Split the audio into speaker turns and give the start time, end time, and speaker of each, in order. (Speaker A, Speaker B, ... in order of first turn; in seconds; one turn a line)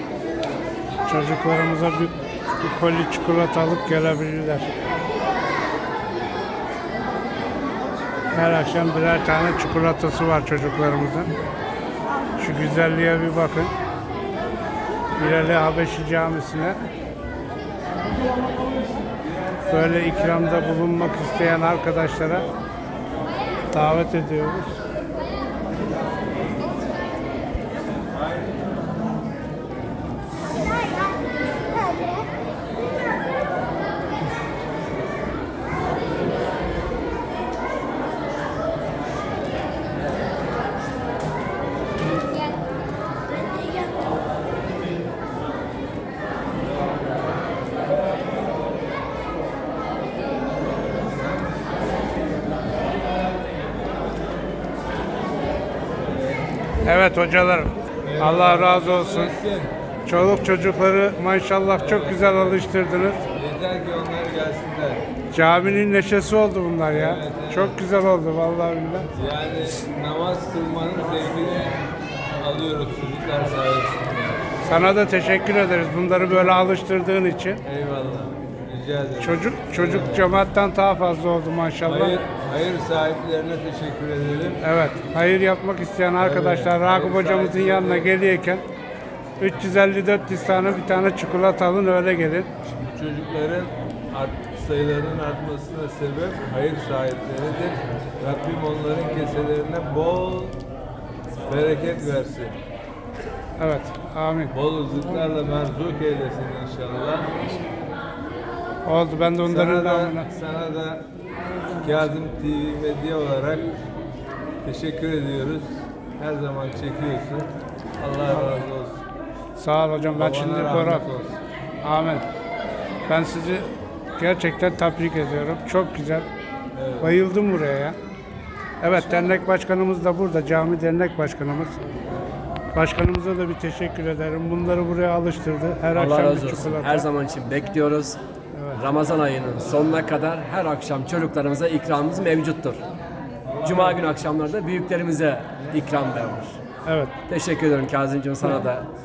Speaker A: 1.1-4.8
Speaker A: 8.3-11.3
Speaker A: 12.4-13.7
Speaker A: 15.2-16.8
Speaker A: 19.7-22.5
Speaker A: 23.7-24.8
Speaker A: 56.8-59.3
Speaker B: 58.0-59.7
Speaker A: 60.1-63.3
Speaker B: 61.8-62.7
Speaker B: 63.4-65.1
Speaker A: 65.3-69.1
Speaker B: 66.9-67.8
Speaker B: 69.2-71.8
Speaker B: 72.4-74.6
Speaker A: 74.6-77.6
Speaker B: 77.7-80.3
Speaker A: 79.2-82.2
Speaker B: 81.8-84.6
Speaker A: 84.6-88.7
Speaker B: 86.2-88.1
Speaker A: 89.4-92.5
Speaker B: 92.8-100.6
Speaker B: 101.5-102.6
Speaker A: 103.6-104.5
Speaker B: 104.5-107.3
Speaker A: 108.9-110.3
Speaker B: 109.5-111.1
Speaker B: 111.8-113.8
Speaker B: 114.6-119.0
Speaker A: 119.6-121.1
Speaker B: 120.2-121.4
Speaker A: 121.8-122.2
Speaker A: 123.1-126.3
Speaker B: 126.8-127.2
Speaker A: 127.0-128.0
Speaker A: 128.8-131.8
Speaker A: 132.7-137.1
Speaker C: 135.9-138.2
Speaker A: 138.5-138.8
Speaker C: 138.8-142.8
Speaker C: 143.6-146.6
Speaker A: 146.8-147.1
Speaker C: 147.3-148.9